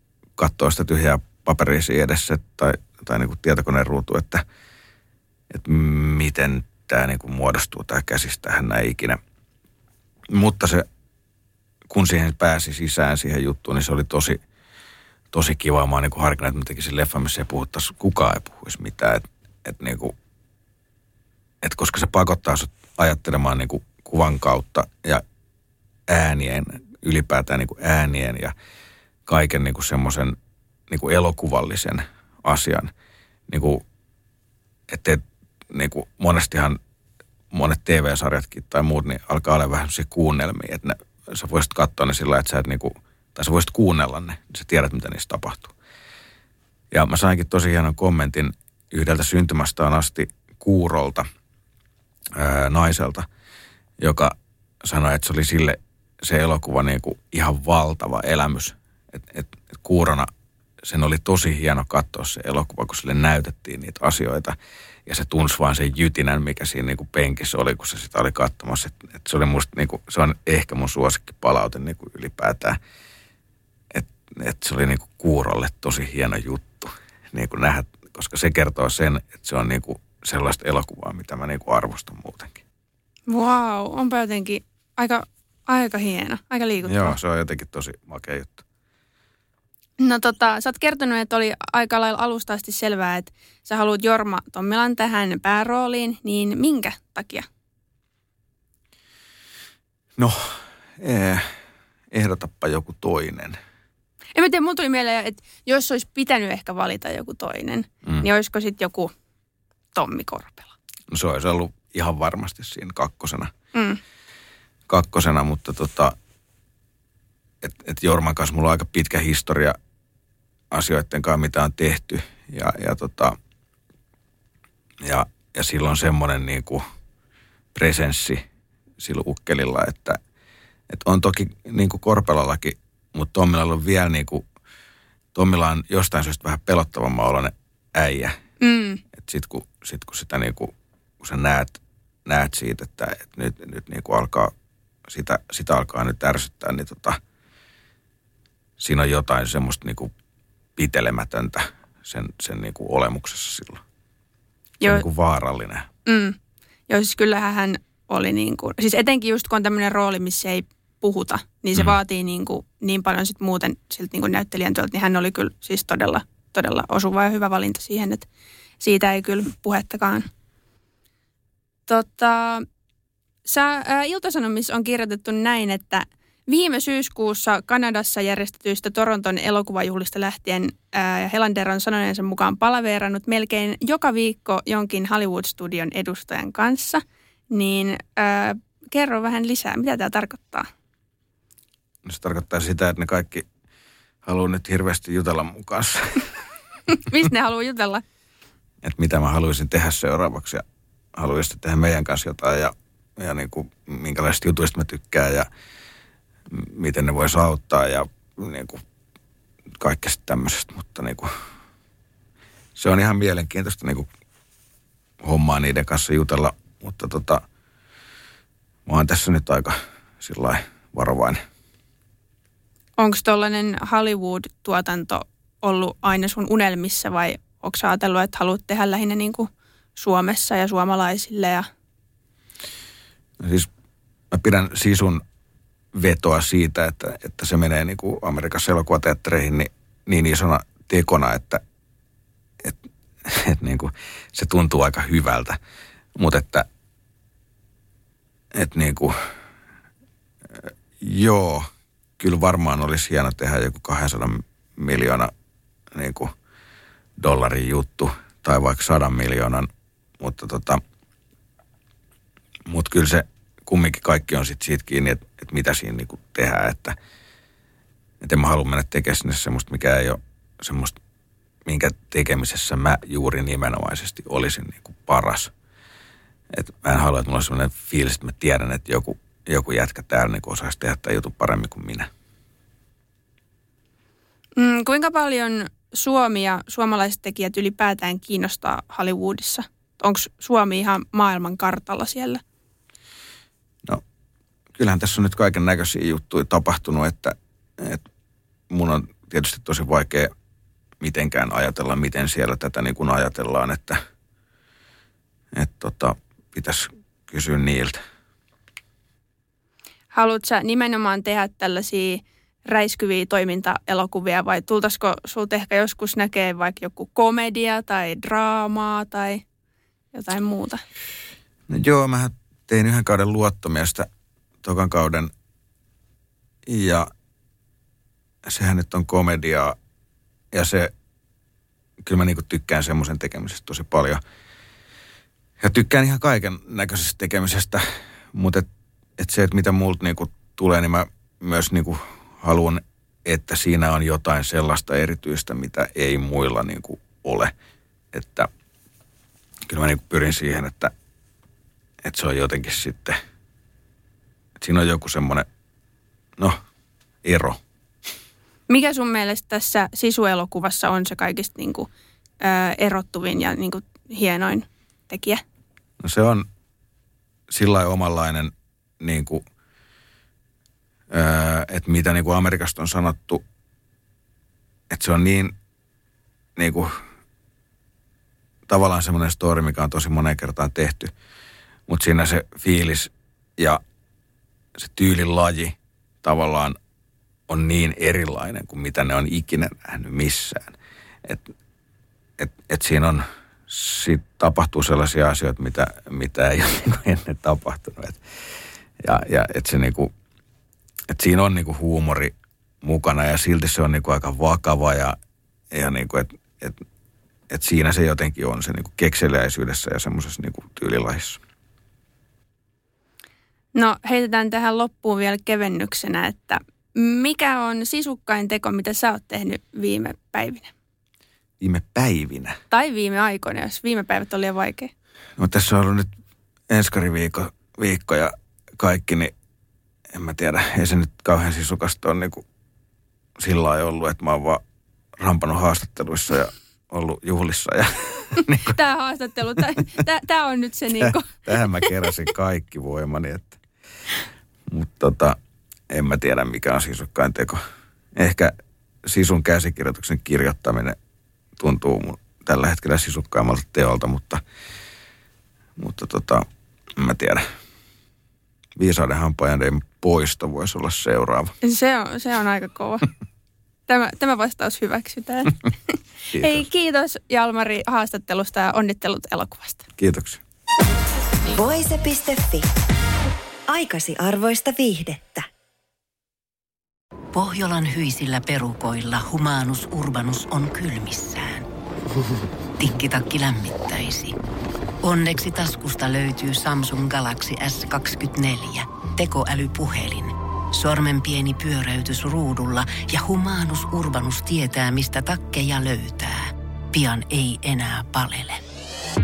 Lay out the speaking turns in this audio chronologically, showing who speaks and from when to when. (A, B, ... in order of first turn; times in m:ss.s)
0:00.4-0:04.4 A
0:05.5-0:09.2 A
0:10.3-0:10.9 A
0:11.9-0:14.4 A
0:15.3-0:20.1 A
0:21.6-0:25.2 A
0:26.1-0:28.5 A
0:29.3-0:30.4 A
0:30.9-0:32.9 A
0:33.5-0:33.8 A
0:34.9-0:36.8 A
0:37.5-0:45.7 A
0:46.9-0:51.2 A
0:52.4-0:53.2 A
0:54.0-1:00.3 A
1:00.8-1:12.8 A
1:13.9-1:22.6 A
1:23.3-1:27.2 B
1:26.8-1:28.6 A
1:30.0-1:37.5 B
1:40.2-1:41.5 A
1:42.1-1:43.6 A
1:44.3-1:49.1 B
1:49.9-1:50.7 B
1:51.1-1:53.5 A
1:53.7-1:54.0 B
1:54.9-1:56.2 A
1:57.6-1:59.8 A
2:00.7-2:03.4 A
2:05.0-2:06.8 A
2:07.7-2:08.4 A
2:09.0-2:10.2 A
2:10.9-2:14.4 A
2:15.3-2:18.4 A
2:18.6-2:19.0 B
2:19.2-2:24.5 A
2:25.1-2:27.2 A
2:28.8-2:30.1 A
2:30.8-2:33.8 A
2:34.8-2:35.0 B
2:34.8-2:35.9 A
2:36.0-2:36.4 B
2:36.9-2:48.3 B
2:48.8-2:50.3 B
2:51.9-2:52.6 B
2:53.5-3:10.7 B
3:12.0-3:13.5 A
3:14.2-3:16.4 A
3:16.9-3:18.0 B
3:18.8-3:20.6 A
3:21.2-3:25.5 A
3:26.5-3:28.8 A
3:29.8-3:31.3 A
3:32.8-3:34.1 A
3:35.2-3:37.4 A
3:38.8-3:41.4 A
3:43.0-3:51.7 B
3:53.4-3:53.7 A
3:54.3-3:55.2 A
3:55.9-4:01.6 A
4:02.6-4:05.6 A
4:06.2-4:06.7 A
4:08.5-4:09.1 A
4:10.5-4:11.7 A
4:12.2-4:15.3 A
4:15.9-4:16.3 A
4:17.2-4:19.7 A
4:20.2-4:20.8 A
4:22.7-4:27.0 A
4:28.2-4:31.0 A
4:31.6-4:35.5 A
4:36.5-4:42.1 A
4:44.6-4:52.4 B
4:54.8-4:58.0 A
4:58.7-5:00.3 A
5:01.0-5:04.0 A
5:05.5-5:08.0 A
5:10.1-5:19.4 B
5:20.1-5:20.8 B
5:21.7-5:24.1 A
5:24.6-5:25.3 A
5:26.7-5:27.1 A
5:28.4-5:29.8 A
5:30.5-5:30.9 A
5:32.0-5:34.2 A
5:35.6-5:47.5 A
5:48.1-5:48.5 A
5:49.7-5:50.9 A
5:52.0-5:53.2 A
5:54.6-5:55.5 A
5:57.2-5:57.6 A
5:58.7-6:01.9 B
6:02.4-6:05.4 B
6:06.0-6:06.5 A
6:07.5-6:09.4 A
6:11.1-6:13.4 A
6:14.9-6:15.5 A
6:16.6-6:17.0 A
6:18.7-6:21.1 A
6:21.9-6:23.8 A
6:24.8-6:26.8 A
6:27.5-6:31.5 A
6:32.4-6:38.2 A
6:39.0-6:40.1 A
6:41.1-6:45.2 A
6:45.7-6:46.8 A
6:47.5-6:51.4 A
6:53.7-7:00.7 B
7:01.6-7:02.6 A
7:02.7-7:04.9 B
7:05.4-7:06.1 A
7:06.7-7:09.3 A
7:10.1-7:12.4 A
7:13.4-7:14.6 A
7:15.2-7:18.8 A
7:18.6-7:21.4 B
7:21.0-7:23.6 A
7:24.7-7:25.4 A
7:25.9-7:27.6 A
7:28.2-7:28.5 A
7:29.0-7:31.0 A
7:31.6-7:34.4 A
7:35.8-7:37.4 A
7:38.8-7:41.6 A
7:41.6-7:43.1 B
7:43.9-7:49.8 B
7:46.3-7:46.6 A
7:50.0-7:50.4 A
7:51.6-7:52.7 C
7:53.7-7:55.5 C
7:57.3-8:01.7 D
8:02.8-8:04.4 D
8:05.0-8:18.6 D